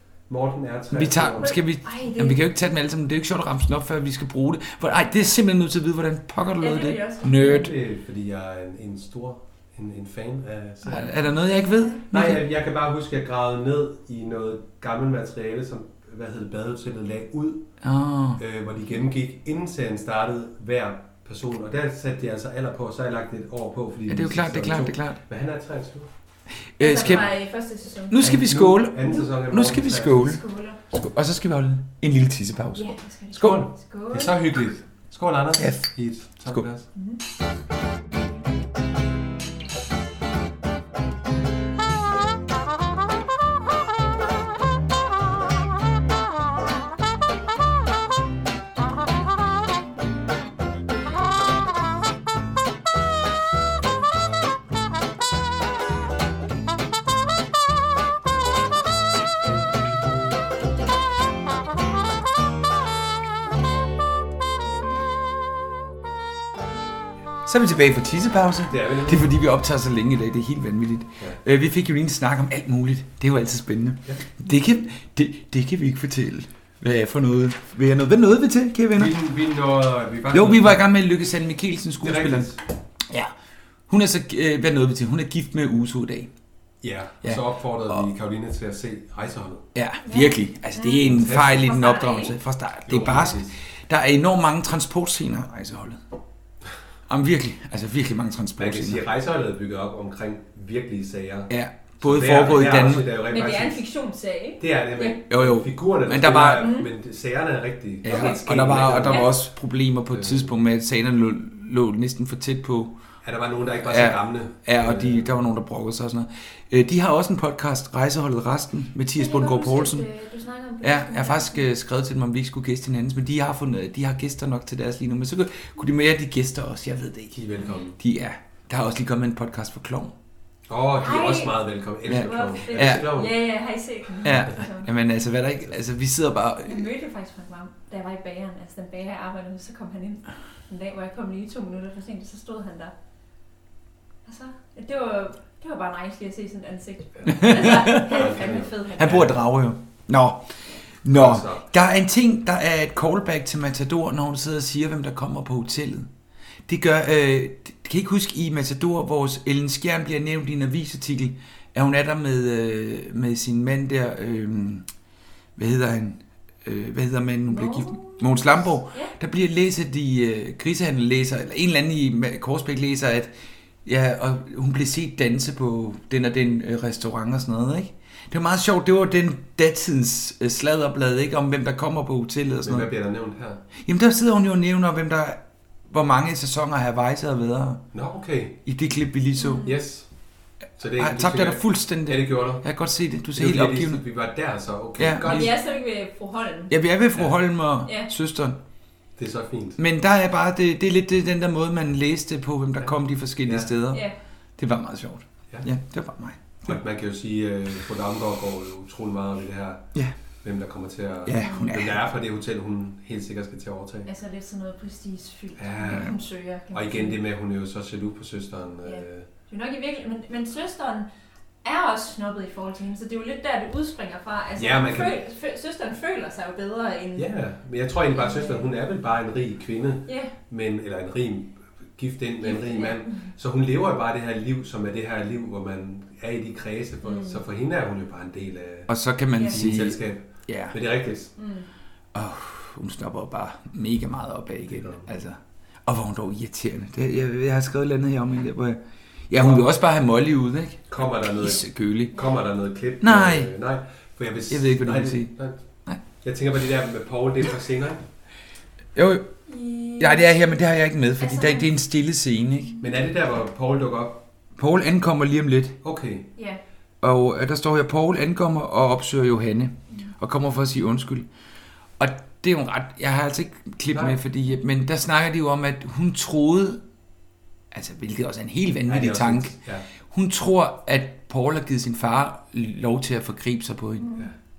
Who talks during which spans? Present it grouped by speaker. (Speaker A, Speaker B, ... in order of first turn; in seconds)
Speaker A: 0.3-1.6, 7.3-11.2, 12.1-17.7, 18.4-26.1, 28.2-30.3, 33.4-36.9, 68.7-69.3, 79.0-80.9, 82.0-82.6, 86.8-89.7, 91.0-91.7, 92.9-93.5, 98.6-103.8, 104.6-109.4, 110.1-110.5, 113.2-115.5, 127.3-128.0, 130.7-133.4, 134.2-134.5, 147.2-149.4, 151.1-151.7, 182.6-183.6, 187.9-188.6, 189.6-190.1, 190.8-192.7, 193.3-195.6, 199.2-199.8, 203.4-203.7, 206.7-209.9, 210.4-214.1, 215.6-216.1, 216.7-219.3, 224.6-225.2, 227.2-238.9, 239.5-241.3, 244.7-245.1, 249.4-249.7, 250.9-255.6, 256.2-258.0, 262.8-264.2, 265.8-266.3, 273.9-274.2, 278.9-279.9
Speaker B: 0.9-7.7, 10.9-12.4, 17.8-18.4, 24.1-25.2, 26.8-27.3, 28.1-33.6, 35.6-35.9, 67.5-79.1, 80.3-82.6, 83.1-83.3, 83.9-86.3, 87.2-88.1, 89.8-96.0, 97.1-99.0, 101.5-103.1, 105.3-106.7, 108.0-113.0, 113.8-120.1, 120.8-127.4, 128.0-130.2, 132.1-133.1, 134.2-136.9, 147.3-148.3, 149.0-156.1, 156.7-164.9, 165.6-173.3, 173.8-182.9, 183.8-187.9, 188.7-189.7, 191.0-194.0, 195.0-195.6, 196.7-198.6, 199.8-204.0, 204.6-206.8, 211.2-212.0, 215.9-216.1, 238.9-240.8, 242.1-252.2, 253.0-253.5, 254.5-255.3, 258.9-259.3, 260.0-262.8, 264.6-265.8, 267.0-271.3, 272.0-276.8, 277.7-279.6, 280.1-284.1
Speaker C: 1.4-2.4, 6.6-7.6, 11.0-12.0, 26.8-28.4, 30.1-30.8, 32.8-34.4, 90.0-92.3, 103.3-105.2, 106.6-106.9, 108.1-109.3, 119.2-121.7, 131.0-134.9, 136.7-142.9, 144.3-149.3, 167.5-168.4, 189.4-189.7, 195.3-196.7, 211.4-211.7, 214.1-217.2, 218.8-221.1, 221.6-227.3, 228.1-228.7, 230.1-230.3, 232.4-233.3, 237.1-237.4, 241.4-241.7, 259.5-260.6, 261.2-261.7, 284.0-284.3